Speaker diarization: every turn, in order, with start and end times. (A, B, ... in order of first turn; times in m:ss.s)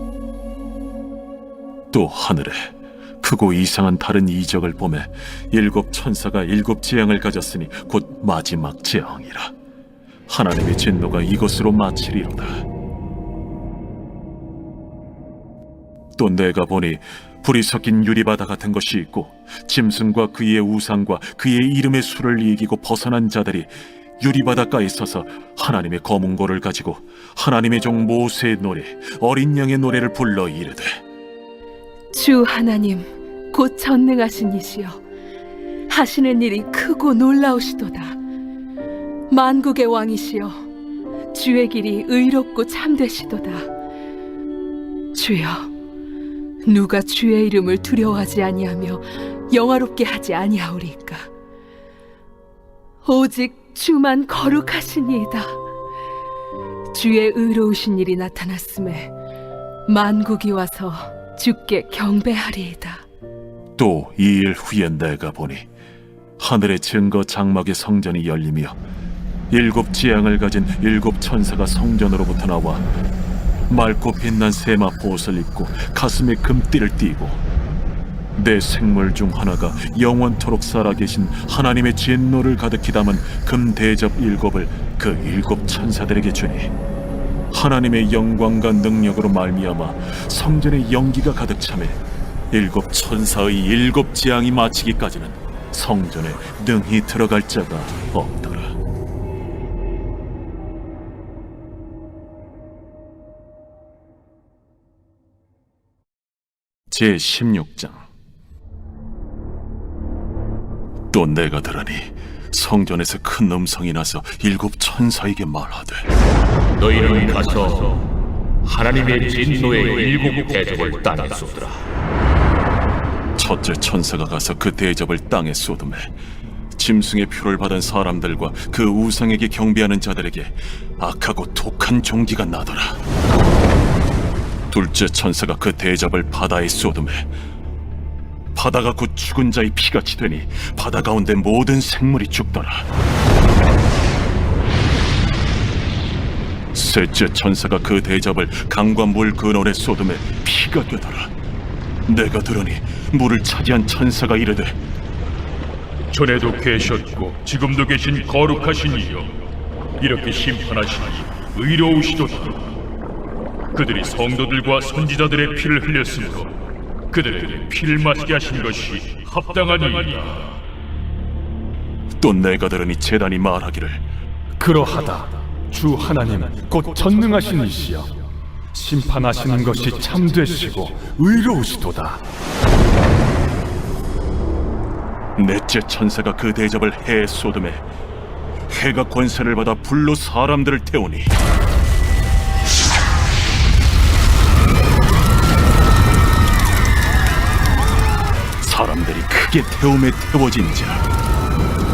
0:01.9-0:09.5 A
0:10.3-0:12.6 A
0:16.2-0:31.0 A
0:32.1-0:33.0 B
0:33.5-0:34.9 B
0:35.9-0:38.1 B
0:39.3-0:40.5 B
0:41.3-0:43.6 B
0:45.1-0:45.6 B
0:46.7-0:49.0 B
0:49.5-0:51.2 B
0:53.0-0:55.4 B
0:56.9-0:59.0 B
0:59.9-1:02.9 B
1:03.8-1:05.6 A
1:06.4-1:08.8 A
1:09.5-1:12.8 A
1:13.7-1:17.4 A
1:18.4-1:26.7 A
1:27.5-1:32.0 A
1:32.5-1:38.8 A
1:46.9-1:48.1 A
1:51.1-1:56.0 A
1:56.8-1:58.1 C
1:58.6-2:01.8 C
2:03.4-2:06.1 A
2:06.7-2:13.0 A
2:14.7-2:17.3 A
2:18.5-2:22.9 A
2:26.7-2:31.3 A
2:32.0-2:34.8 A
2:36.1-2:39.3 D
2:40.0-2:42.6 D
2:43.7-2:46.5 D
2:47.1-2:50.6 D
2:52.2-2:54.0 A
2:54.6-2:58.2 E
2:58.7-3:02.2 E
3:05.3-3:07.8 A
3:08.7-3:11.3 A
3:18.6-3:21.0 A